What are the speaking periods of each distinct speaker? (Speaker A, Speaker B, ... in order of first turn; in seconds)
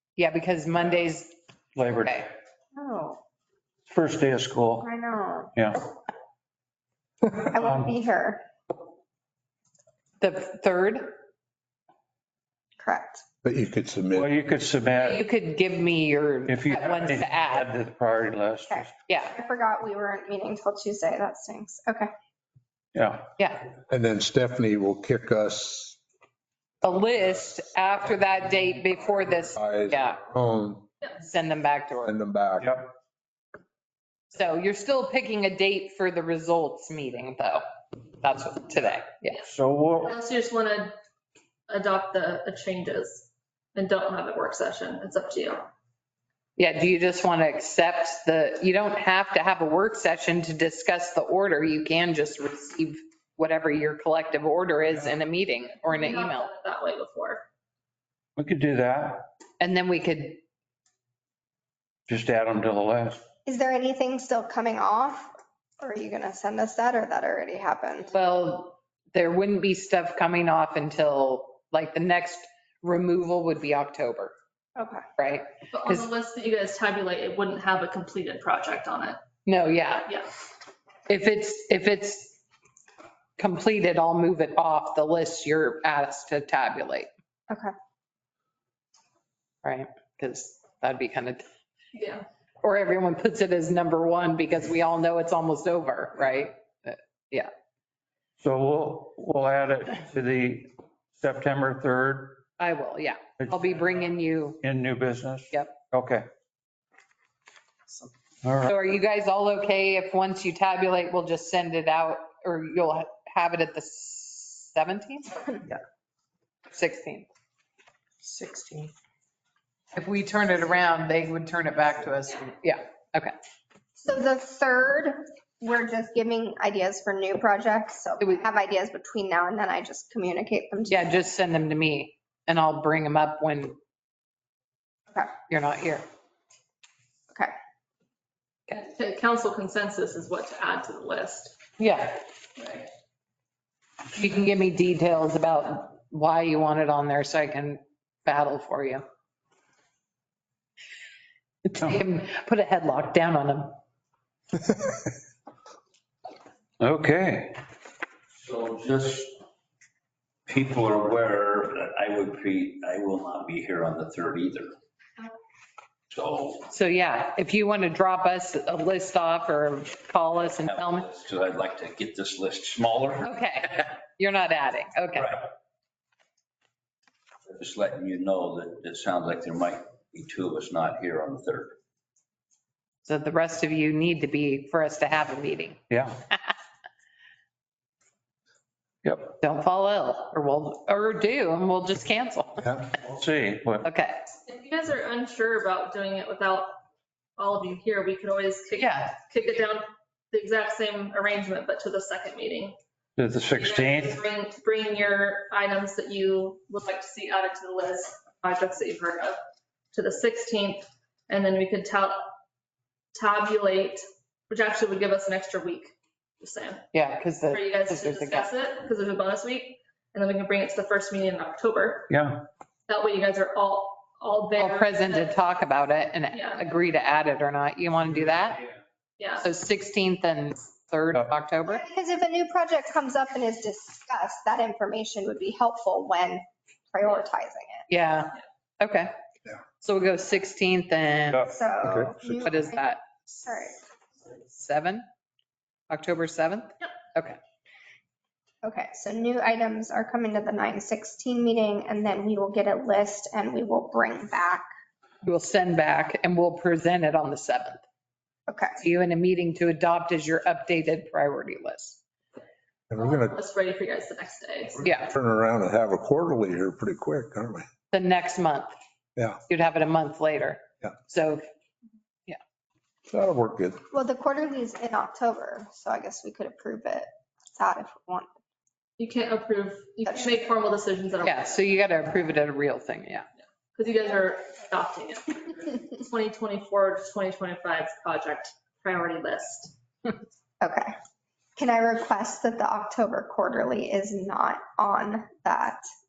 Speaker A: 0.2-1.3, 1.9-2.3, 10.2-11.1, 15.0-17.7, 19.1-19.3, 23.4-23.6, 26.8-30.2, 31.2-32.1, 34.3-37.6, 38.2-39.4, 46.6-56.5, 59.6-60.4, 68.1-74.3, 75.2-76.1, 79.5-80.1, 81.1-82.3, 83.4-87.1, 89.6-91.4, 92.6-97.5, 102.6-104.6, 105.5-105.8, 108.6-115.8, 116.7-117.3, 118.2-118.9, 120.0-123.3, 130.9-133.8, 135.5-136.1, 141.8-142.2, 144.1-149.0, 151.7-153.7, 166.7-171.1, 173.2-175.4, 183.0-185.8, 189.4-192.8, 193.8-194.2, 198.8-199.2, 216.9-218.5, 224.6-228.7, 229.4-231.8, 237.9-239.1, 239.8-241.5, 242.4-243.5, 244.5-245.1, 245.9-247.4, 255.2-257.8, 258.8-262.0, 264.8-265.1, 267.9-268.8, 269.5-271.4, 281.2-283.3
Speaker B: 1.8-2.2, 3.9-4.9, 5.5-5.8, 7.6-7.9, 14.2-15.3, 16.5-19.0, 22.9-23.3, 32.6-32.9, 39.4-40.1, 58.4-59.3, 62.1-63.2, 98.4-102.5, 103.4-103.7, 104.6-106.3, 108.4-108.7, 156.8-157.6, 185.9-186.2, 189.0-189.3, 193.0-193.9, 203.2-204.2, 222.1-222.4, 241.3-241.9
Speaker C: 2.8-3.2, 4.8-5.5, 7.3-8.4, 12.8-13.2, 18.7-22.1, 63.5-68.1, 74.8-75.0, 124.0-131.1, 231.7-237.8, 241.5-242.9, 243.4-243.8, 248.6-254.7, 258.5-258.8, 273.9-278.3, 280.1-280.5, 290.6-290.9, 291.6-295.8
Speaker D: 13.4-14.4, 23.9-26.0, 29.6-30.9, 32.0-32.8, 262.9-263.4, 264.9-267.7, 273.1-273.8
Speaker E: 40.0-41.0, 41.7-45.7, 55.9-57.5, 75.7-79.2, 92.0-92.2, 138.7-141.6, 142.6-142.9, 194.5-196.8, 197.4-202.8, 203.6-209.4, 209.9-212.2, 213.2-216.9, 217.5-222.1, 222.9-225.4, 226.3-226.6, 229.2-229.5, 263.0-264.8, 279.0-281.6, 283.8-289.8
Speaker F: 158.4-159.3, 160.5-164.8, 166.1-166.6, 170.5-173.4, 177.5-181.8